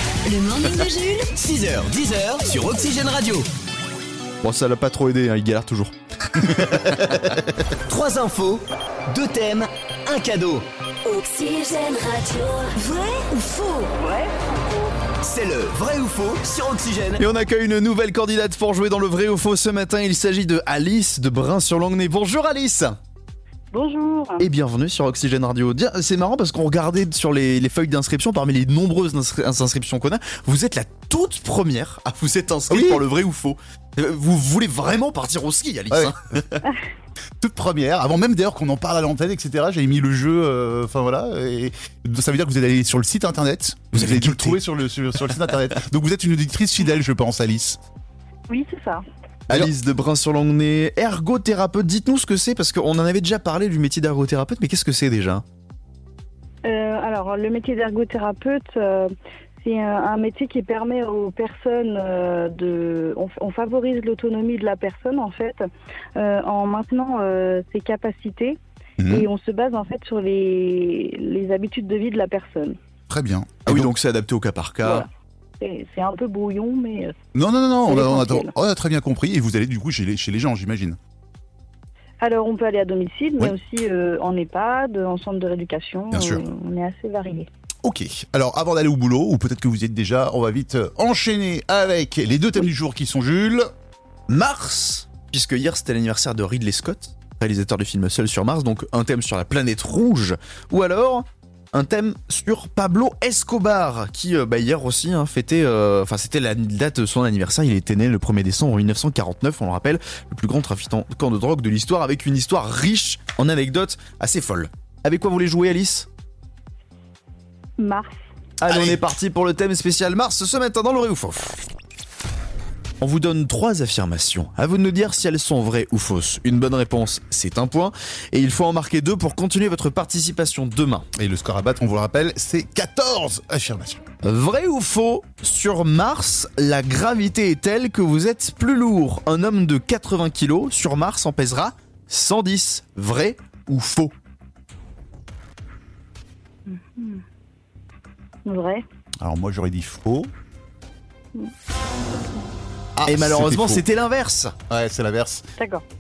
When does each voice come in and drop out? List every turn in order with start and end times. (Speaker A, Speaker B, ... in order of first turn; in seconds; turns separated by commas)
Speaker A: 0.2-1.3, Speaker B: 1.4-3.5, Speaker C: 4.4-6.0, Speaker D: 6.6-7.2, Speaker C: 6.6-7.0, Speaker B: 7.8-10.7, Speaker A: 11.1-13.9, Speaker E: 14.0-14.7, Speaker B: 15.2-17.2, Speaker C: 17.2-23.0, Speaker E: 23.7-24.4, Speaker C: 24.4-36.6, Speaker D: 32.7-33.0, Speaker D: 37.4-47.8, Speaker C: 43.9-44.6, Speaker E: 48.5-49.0, Speaker C: 49.5-55.4, Speaker E: 56.6-72.8, Speaker D: 69.0-69.3, Speaker D: 73.1-73.9, Speaker C: 73.7-75.1, Speaker E: 75.6-77.1, Speaker D: 77.3-81.0, Speaker E: 77.9-78.5, Speaker E: 82.2-87.5, Speaker D: 86.1-86.5, Speaker D: 87.8-93.7, Speaker C: 94.3-116.1, Speaker E: 117.8-118.2, Speaker C: 118.6-121.6, Speaker D: 118.7-119.0, Speaker C: 123.0-131.1, Speaker D: 131.2-134.0, Speaker C: 134.2-144.1, Speaker E: 146.7-147.2, Speaker E: 148.5-148.8, Speaker D: 149.2-150.3, Speaker D: 153.0-153.9, Speaker C: 153.0-154.6, Speaker D: 154.7-155.4, Speaker E: 155.6-155.8